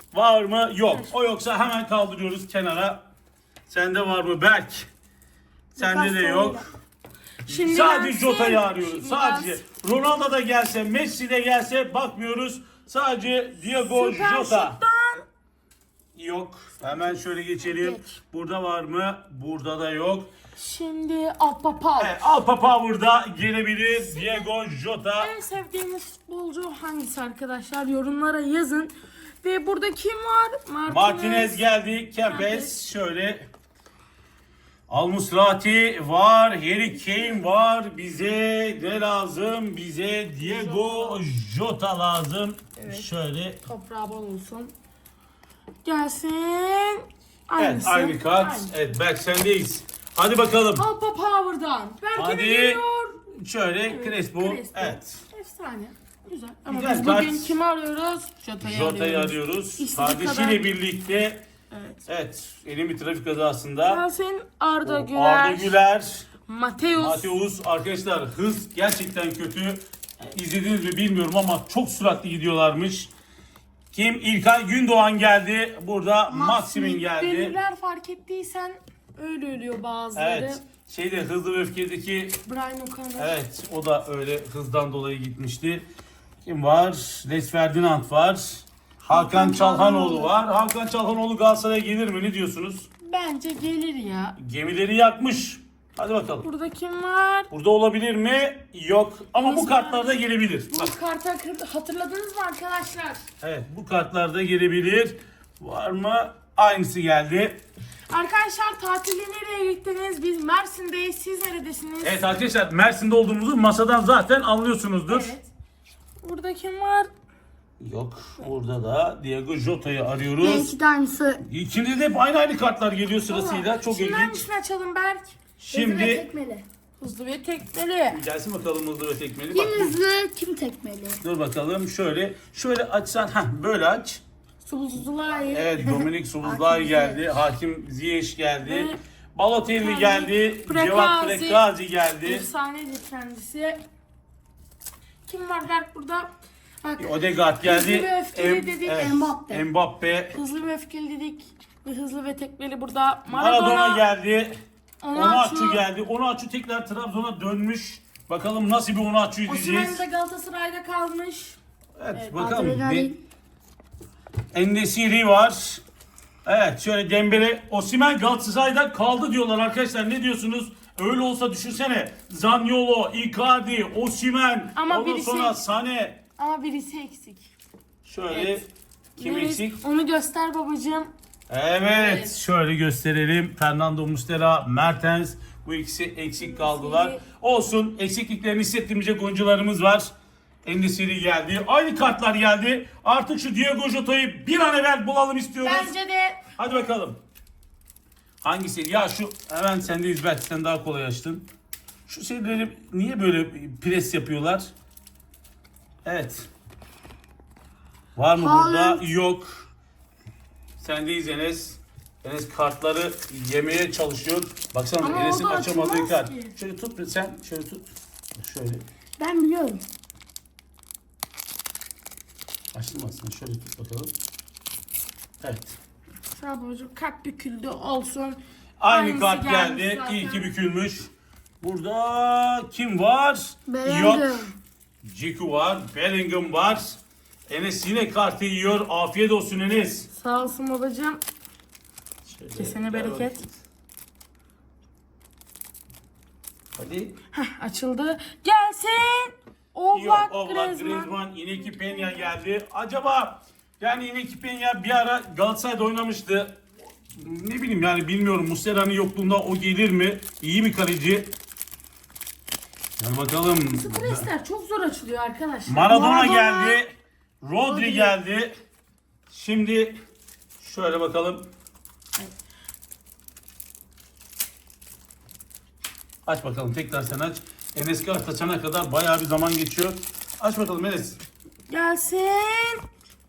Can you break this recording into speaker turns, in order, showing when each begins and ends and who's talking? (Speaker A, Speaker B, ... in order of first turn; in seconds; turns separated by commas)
Speaker A: 0.1-3.0, Speaker A: 3.7-4.9, Speaker A: 5.7-6.6, Speaker B: 5.8-6.6, Speaker B: 7.4-9.6, Speaker A: 7.5-14.8, Speaker B: 13.7-15.2, Speaker A: 16.1-20.3, Speaker B: 20.6-22.2, Speaker A: 22.0-25.3, Speaker B: 24.1-24.4, Speaker B: 25.2-31.6, Speaker A: 30.9-33.5, Speaker B: 32.3-32.7, Speaker A: 34.9-43.6, Speaker B: 37.0-37.4, Speaker B: 40.4-41.2, Speaker B: 42.8-43.1, Speaker B: 43.7-44.7, Speaker B: 45.8-48.7, Speaker A: 47.6-50.9, Speaker B: 50.8-53.2, Speaker A: 52.1-55.2, Speaker B: 53.9-60.7, Speaker A: 56.7-57.5, Speaker A: 58.6-61.4, Speaker B: 61.7-62.0, Speaker A: 62.1-64.0, Speaker B: 63.9-65.8, Speaker A: 64.8-66.3, Speaker B: 66.5-67.3, Speaker A: 66.9-73.1, Speaker A: 73.9-77.6, Speaker B: 76.3-80.6, Speaker A: 80.1-82.4, Speaker B: 82.4-83.3, Speaker A: 83.2-85.9, Speaker A: 86.4-92.9, Speaker B: 89.1-90.3, Speaker B: 93.0-94.4, Speaker A: 94.3-96.5, Speaker B: 96.4-97.5, Speaker A: 97.5-100.9, Speaker B: 99.4-100.2, Speaker B: 100.7-103.2, Speaker A: 103.4-107.6, Speaker B: 108.1-112.3, Speaker A: 112.0-115.3, Speaker B: 115.1-115.5, Speaker B: 116.2-117.1, Speaker A: 117.8-120.7, Speaker C: 120.4-121.4, Speaker A: 121.4-124.4, Speaker B: 123.3-125.3, Speaker A: 125.6-126.3, Speaker C: 125.7-126.7, Speaker B: 127.0-128.2, Speaker A: 128.1-130.0, Speaker C: 129.5-131.2, Speaker A: 131.2-134.2, Speaker B: 134.6-136.1, Speaker A: 135.5-142.4, Speaker C: 136.4-137.2, Speaker B: 138.6-139.0, Speaker B: 139.8-141.6, Speaker B: 142.2-143.8, Speaker B: 145.2-146.3, Speaker B: 146.8-149.1, Speaker A: 147.0-150.4, Speaker C: 148.9-149.6, Speaker B: 150.3-154.0, Speaker A: 153.3-154.5, Speaker B: 155.0-155.8, Speaker A: 155.1-160.0, Speaker B: 159.4-161.6, Speaker A: 162.0-163.1, Speaker C: 162.3-163.2, Speaker A: 164.5-165.8, Speaker A: 166.4-176.2, Speaker B: 174.8-175.6, Speaker B: 176.4-177.5, Speaker A: 178.0-178.6, Speaker B: 178.3-181.1, Speaker A: 179.2-179.8, Speaker A: 181.5-190.1, Speaker B: 181.8-182.3, Speaker B: 186.4-187.2, Speaker A: 190.6-195.9, Speaker B: 195.6-196.5, Speaker A: 196.6-197.2, Speaker A: 198.4-201.5, Speaker A: 202.1-204.7, Speaker A: 206.0-206.5, Speaker A: 208.2-209.7, Speaker C: 208.4-209.0, Speaker A: 210.8-218.8, Speaker B: 215.0-216.5, Speaker C: 219.2-219.8, Speaker A: 222.7-224.1, Speaker A: 225.4-225.8, Speaker B: 226.4-230.5, Speaker A: 228.8-234.5, Speaker C: 233.7-234.5, Speaker A: 235.0-240.1, Speaker B: 240.1-241.2, Speaker A: 242.2-243.5, Speaker B: 242.6-243.4, Speaker A: 246.7-247.2, Speaker B: 247.3-251.1, Speaker A: 249.9-261.3, Speaker B: 251.7-252.3, Speaker A: 263.0-264.3, Speaker B: 263.7-266.8, Speaker A: 265.6-268.5, Speaker C: 265.9-266.6, Speaker C: 267.6-268.1, Speaker A: 269.3-269.9, Speaker A: 270.6-271.5, Speaker A: 276.2-281.2, Speaker B: 281.7-282.8